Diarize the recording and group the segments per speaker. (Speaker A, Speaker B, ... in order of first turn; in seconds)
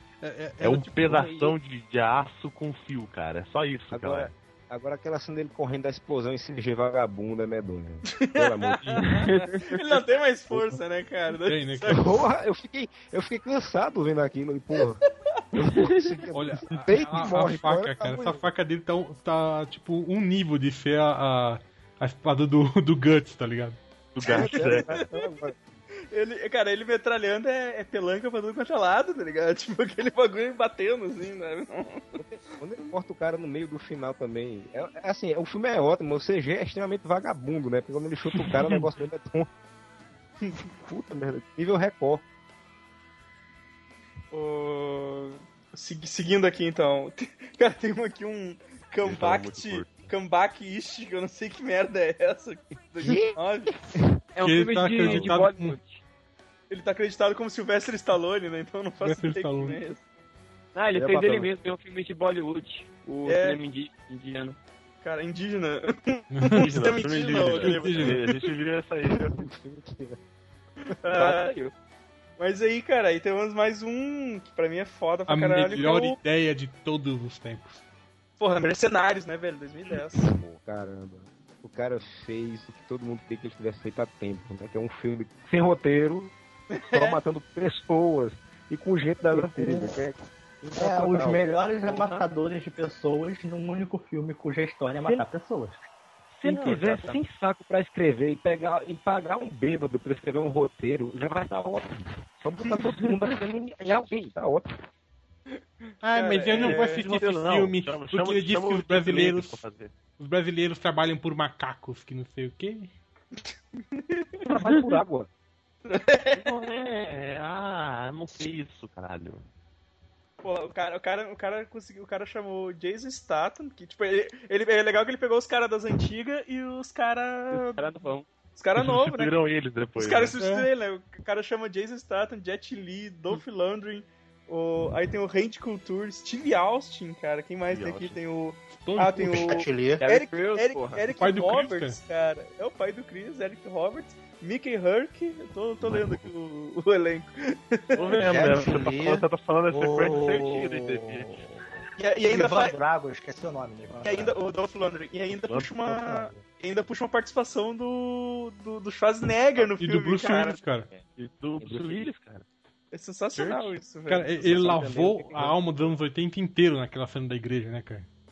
Speaker A: 0.2-1.0, 11.5-11.9, 16.3-23.8, 54.4-55.8, 59.0-59.8, 66.3-66.6, 67.6-68.2, 75.3-77.8, 106.0-109.6, 110.2-112.9, 130.4-130.7, 138.8-139.5, 141.2-142.0, 159.8-160.9, 163.4-168.1
Speaker B: 0.6-4.3, 24.1-24.9, 49.0-50.1, 55.0-55.3, 66.6-69.4, 96.6-97.1, 106.6-109.9, 116.3-119.5, 128.8-130.4, 137.7-138.2, 145.8-146.3, 148.0-151.3, 155.4-155.9, 161.1-162.4, 164.4-165.6
Speaker C: 1.0-1.5, 3.9-9.0, 10.5-10.8, 11.9-15.0, 15.6-18.4, 24.2-25.6, 32.1-39.5, 40.8-42.2, 53.0-53.4, 53.9-54.2, 60.9-61.5, 69.3-70.2, 80.3-86.3, 86.9-91.4, 96.3-104.7, 114.5-115.3, 161.6-162.0
Speaker D: 8.0-12.2, 15.0-15.4, 24.3-25.2, 26.1-32.2, 40.4-40.7, 44.3-53.8, 56.7-60.0, 63.2-63.6, 65.0-68.4, 70.9-71.6, 72.4-76.2, 78.4-80.3, 86.7-87.2, 106.1-107.1, 113.4-114.5, 115.8-116.5, 120.4-127.9, 128.6-129.3, 130.0-148.2, 152.0-152.8, 154.0-160.6, 162.9-165.5
Speaker E: 9.1-9.7, 54.4-56.0, 60.8-64.6, 71.1-71.7, 96.5-96.8, 127.5-128.3, 140.0-141.1
Speaker F: 89.3-90.0, 90.8-95.9, 139.3-140.0, 149.8-150.8, 152.3-154.3